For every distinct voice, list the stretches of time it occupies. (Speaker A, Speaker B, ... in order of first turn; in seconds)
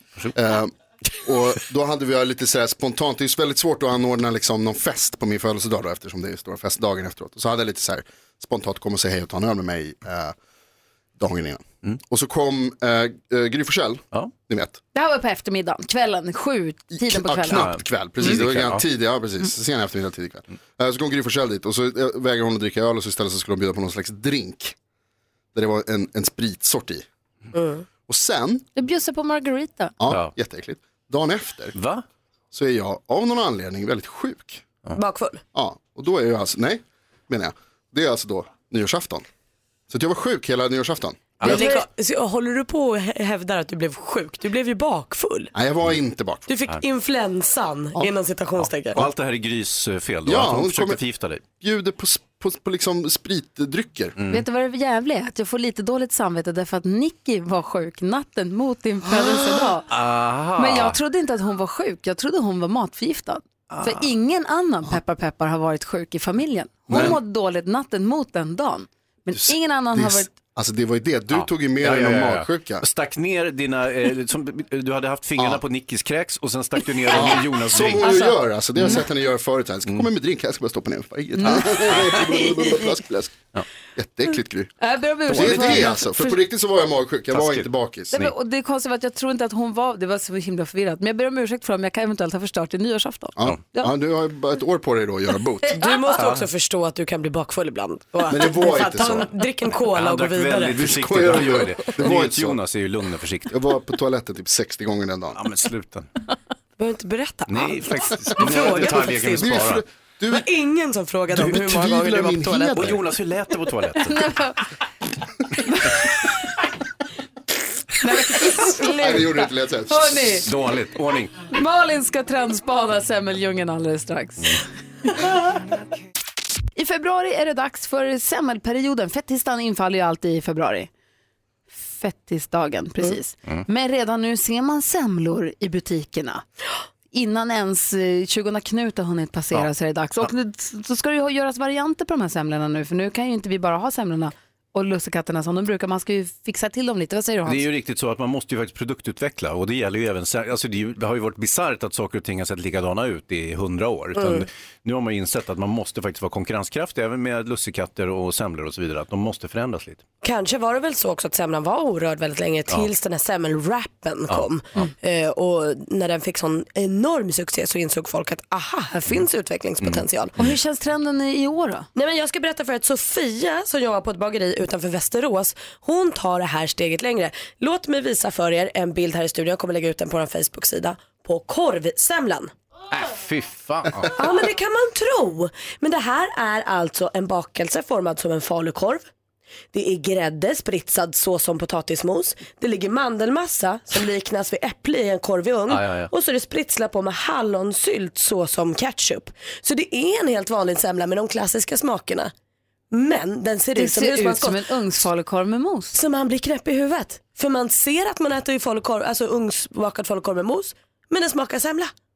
Speaker A: 0.3-10.4, 11.2-14.8, 16.9-24.7, 25.5-27.1, 28.1-28.6, 30.0-31.7, 32.5-34.6, 35.5-39.2, 39.9-41.6, 45.5-46.4, 50.2-51.0, 51.6-54.1, 66.9-67.2, 69.3-72.9, 75.4-75.6, 77.1-84.7, 85.3-88.3, 93.4-95.8, 98.3-99.3, 100.9-102.6, 103.5-105.4, 108.5-110.4, 111.3-113.0, 118.5-120.3
Speaker B: 14.9-17.7, 28.7-29.9, 54.3-59.9, 60.6-70.3, 78.0-78.4, 81.4-81.7, 84.8-86.4, 88.1-93.9, 95.6-96.1, 114.0-114.6, 115.7-116.3, 118.0-120.5, 121.5-125.1, 126.8-130.9, 131.7-136.4, 137.1-147.6, 170.4-171.9, 203.8-206.0
Speaker C: 17.5-18.8, 31.7-32.0, 41.4-41.6, 48.9-51.4, 54.2-54.4, 59.9-61.0, 63.7-64.0, 66.9-67.2, 71.3-78.1, 81.5-82.2, 85.3-85.9, 87.3-88.3, 99.9-103.5, 105.3-106.1, 107.5-109.8, 112.7-114.3, 120.4-121.3, 147.4-160.0, 164.3-164.9, 169.8-170.5, 182.9-184.3, 195.7-196.1
Speaker D: 27.5-27.9, 35.0-35.4, 41.4-45.5, 46.5-49.0, 95.7-101.6, 106.8-109.6, 110.3-112.9, 154.2-154.5, 160.2-170.3, 171.9-182.5, 184.1-189.1, 189.7-202.3, 202.9-204.6, 205.9-211.9